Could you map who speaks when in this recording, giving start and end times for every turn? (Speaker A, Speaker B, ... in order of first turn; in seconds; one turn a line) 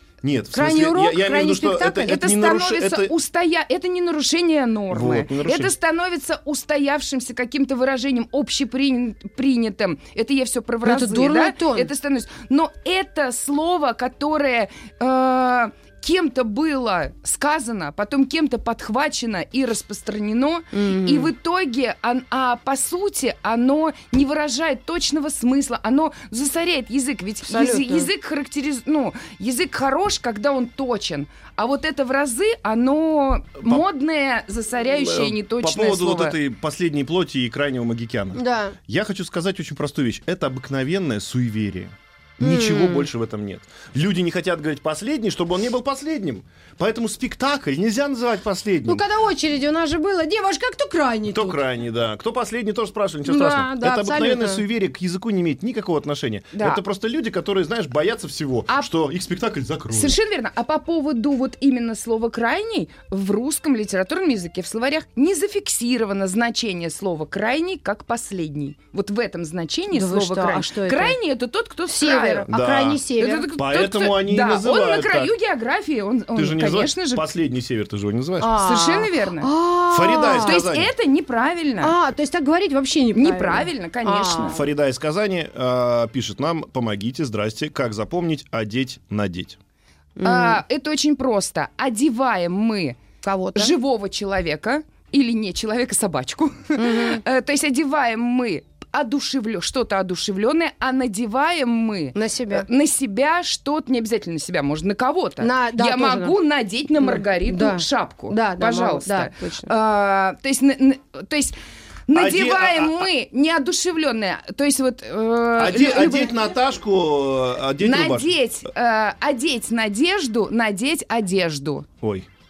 Speaker A: 0.2-3.1
Speaker B: 0.5-2.1
Speaker C: 1.9-36.4
Speaker A: 4.9-5.7
Speaker B: 10.8-11.9
Speaker B: 20.7-21.3
Speaker B: 27.4-28.1
Speaker A: 34.8-49.0
Speaker B: 38.4-38.8
Speaker B: 42.4-43.1
Speaker B: 48.9-51.6
Speaker A: 51.3-60.2
Speaker B: 53.2-54.6
Speaker C: 56.5-56.8
Speaker C: 59.9-72.5
Speaker B: 69.9-71.2
Speaker B: 71.9-73.5
Speaker A: 72.5-73.0
Speaker C: 73.2-77.3
Speaker A: 73.5-75.3
Speaker A: 76.3-78.6
Speaker B: 78.4-80.6
Speaker C: 78.6-79.5
Speaker A: 79.9-80.9
Speaker C: 80.4-81.9
Speaker B: 81.8-84.6
Speaker C: 83.1-84.6
Speaker A: 84.5-89.6
Speaker B: 90.2-90.6
Speaker C: 90.2-93.0
Speaker B: 93.2-93.8
Speaker C: 93.5-111.5
Speaker B: 96.8-97.2
Speaker B: 102.1-102.7
Speaker B: 105.4-106.3
Speaker B: 107.0-109.7
Speaker C: 112.1-116.3
Speaker A: 112.1-113.1
Speaker A: 115.5-118.3
Speaker C: 117.8-121.9
Speaker A: 122.0-122.3